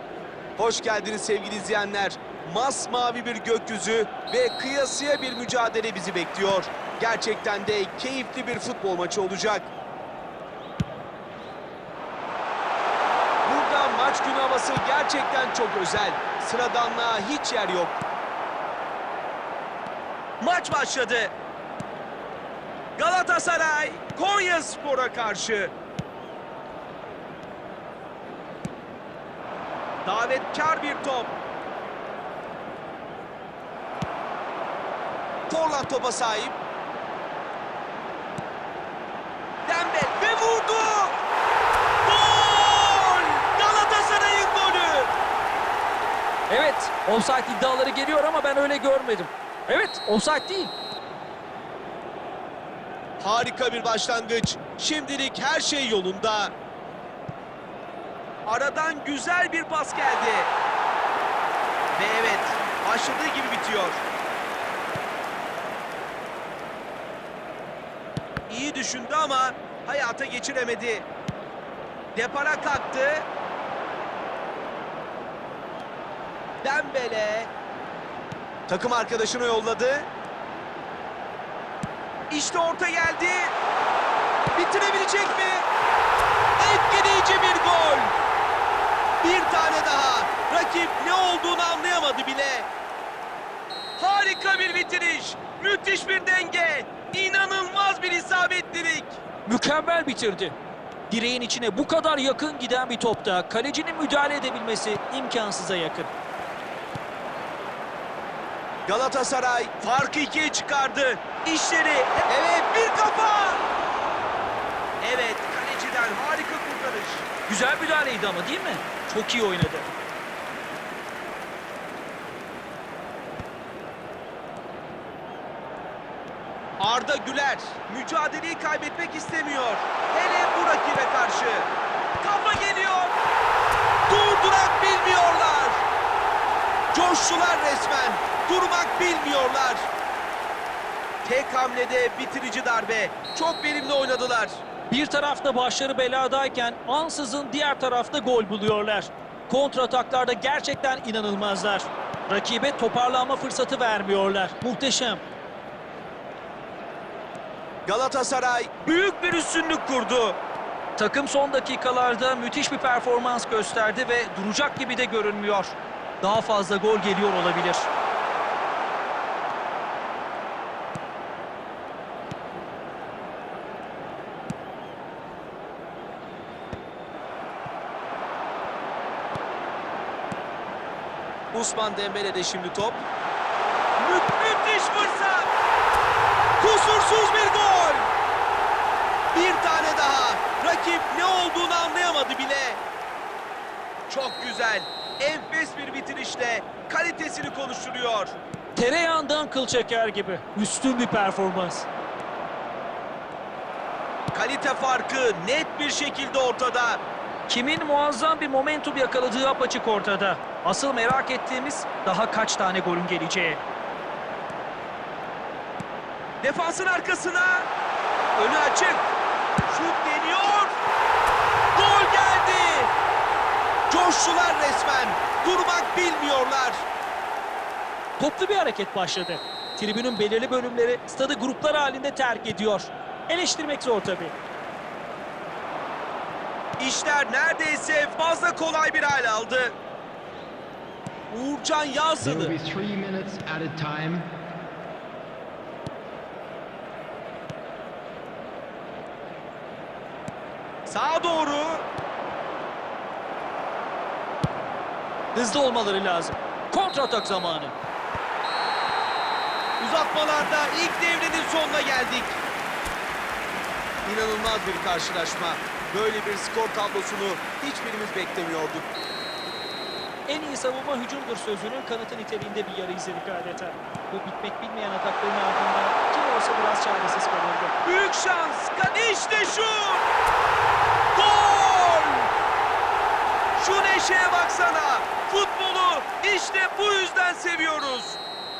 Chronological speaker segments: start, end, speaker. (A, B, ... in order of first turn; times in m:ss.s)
0:00.6-0:09.7 A
0:13.4-0:18.0 A
0:20.4-0:21.3 A
0:23.0-0:25.7 A
0:30.0-0:31.3 A
0:35.5-0:36.6 A
0:39.6-0:41.2 A
0:42.0-0:45.1 A
0:46.5-0:50.7 B
0:53.2-0:56.5 A
0:58.4-1:00.5 A
1:01.9-1:04.0 A
1:08.5-1:11.1 A
1:12.1-1:13.2 A
1:16.6-1:17.5 A
1:18.7-1:20.1 A
1:22.3-1:23.5 A
1:24.5-1:25.7 A
1:26.6-1:28.1 A
1:29.2-1:32.7 A
1:34.0-1:39.2 A
1:39.4-1:40.5 B
1:41.1-1:46.1 B
1:48.9-1:53.6 A
1:55.0-1:57.3 A
1:57.5-1:59.9 B
2:06.8-2:11.7 A
2:12.2-2:13.2 A
2:14.1-2:15.8 A
2:16.9-2:19.9 A
2:21.2-2:24.6 A
2:24.9-2:35.2 B
2:37.9-2:40.4 A
2:41.0-2:47.9 B
3:01.5-3:03.0 A
3:04.0-3:05.5 A
3:06.6-3:08.1 A
3:09.3-3:12.8 A
3:14.1-3:18.3 A
3:18.7-3:21.9 B
3:24.3-3:27.0 A
3:27.5-3:33.6 B
3:36.4-3:37.7 A
3:38.4-3:39.0 A
3:39.7-3:40.8 A
3:41.7-3:42.9 A
3:43.9-3:46.8 A
3:48.2-3:54.3 B
3:56.8-3:59.7 A
4:01.3-4:02.6 A
4:02.2-4:04.2 C
4:10.9-4:11.8 A
4:15.3-4:17.7 B
4:19.8-4:22.4 A
4:24.0-4:28.9 A
4:30.2-4:37.7 B
4:37.8-4:40.0 A
4:41.1-4:42.3 A
4:43.6-4:48.2 A